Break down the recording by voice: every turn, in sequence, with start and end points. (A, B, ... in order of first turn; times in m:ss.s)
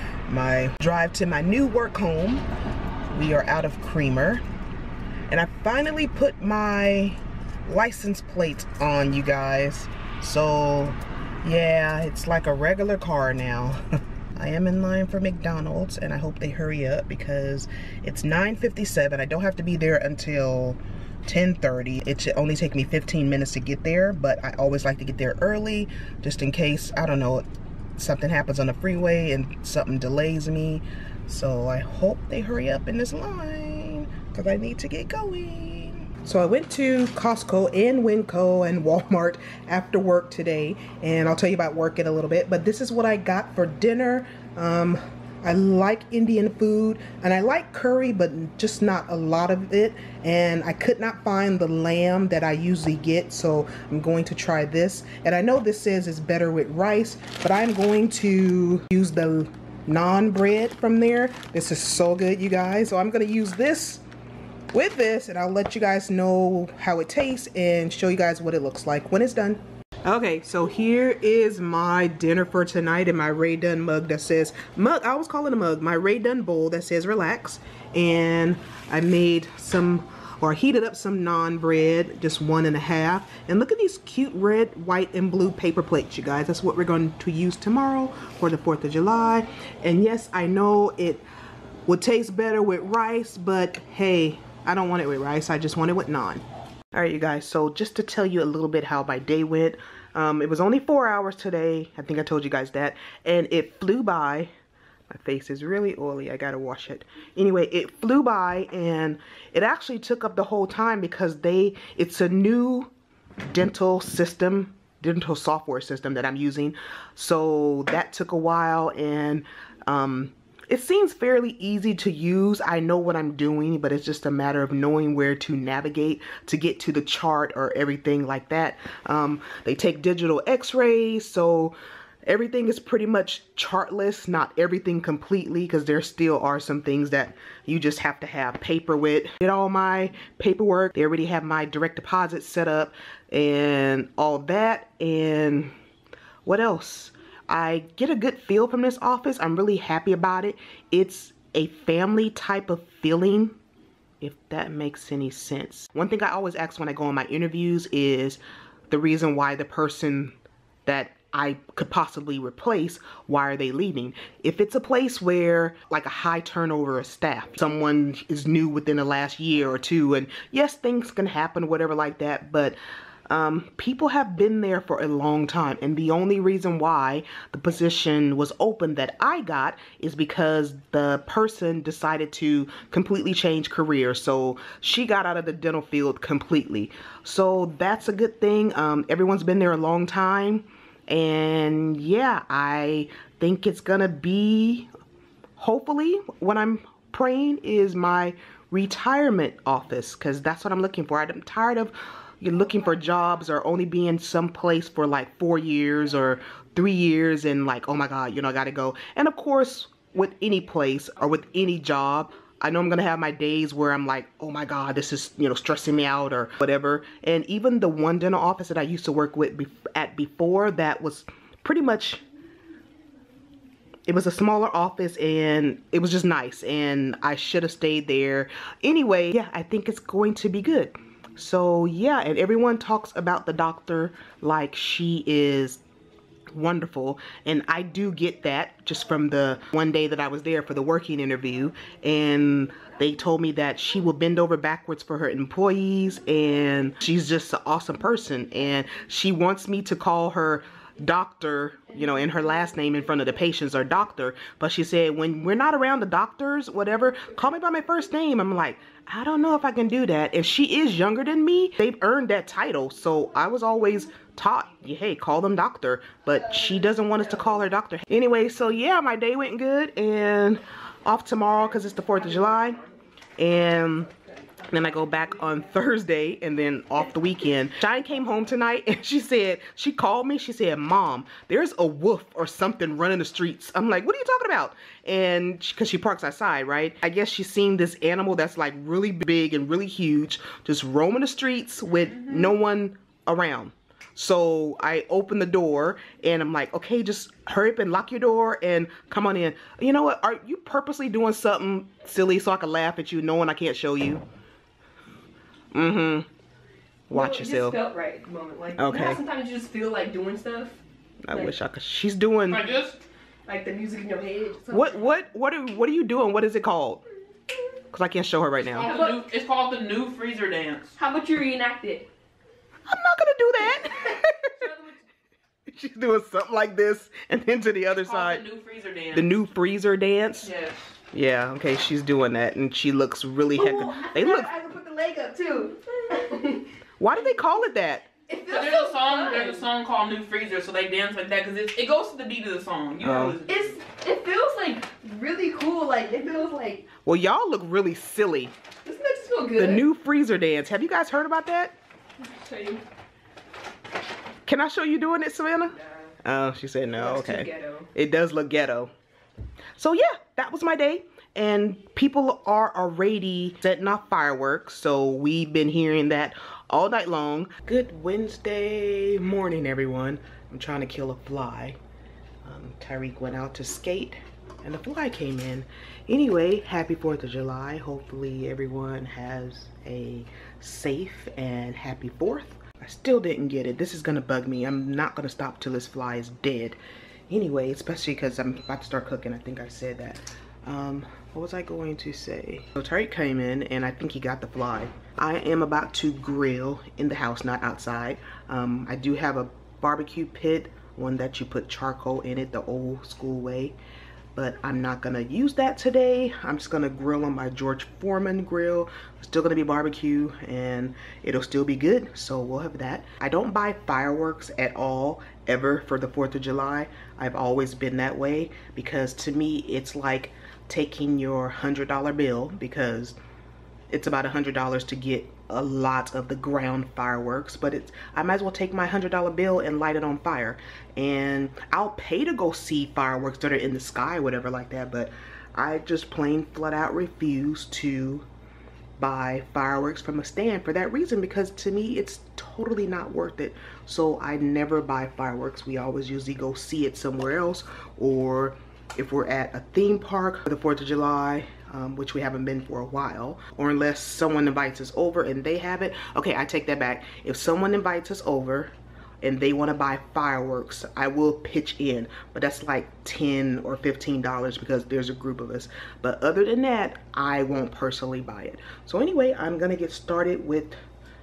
0:00.3-0:02.5 A
0:03.1-0:04.4 A
0:05.3-0:13.8 A
0:14.4-0:27.5 A
0:28.0-1:04.0 A
1:04.7-1:31.2 A
1:31.9-1:44.5 A
1:45.1-1:52.9 A
1:53.5-2:25.7 A
2:26.4-2:33.6 A
2:34.2-2:40.3 A
2:40.9-2:52.8 A
2:53.3-3:14.9 A
3:15.6-3:42.2 A
3:44.1-3:55.8 A
3:56.5-4:32.8 A
4:33.4-4:34.1 A
4:34.7-5:04.2 A
5:05.7-5:06.3 A
5:07.1-5:07.8 A
5:07.1-5:10.8 B
5:08.8-5:09.2 A
5:11.2-5:12.6 A
5:12.5-5:13.0 C
5:13.5-5:15.2 B
5:14.7-5:17.0 A
5:17.9-5:18.9 A
5:18.6-5:21.0 C
5:18.9-5:19.2 B
5:21.0-5:22.1 B
5:22.9-5:24.6 A
5:24.6-5:25.0 B
5:25.7-5:28.4 A
5:27.9-5:29.3 C
5:29.1-5:30.5 A
5:30.4-5:30.8 C
5:31.1-5:34.6 A
5:33.6-5:36.6 B
5:37.0-5:38.1 A
5:38.3-5:39.6 B
5:38.5-5:43.8 C
5:43.0-5:43.4 A
5:43.5-5:46.9 B
5:47.0-5:48.5 A
5:48.8-5:49.8 B
5:49.6-5:51.8 A
5:52.2-5:52.8 B
5:54.5-5:58.9 A
5:57.0-5:57.9 B
5:59.8-6:11.8 A
6:12.4-6:26.8 A
6:27.3-6:43.8 A
6:44.4-7:03.2 A
7:03.9-7:18.3 A
7:19.0-7:50.8 A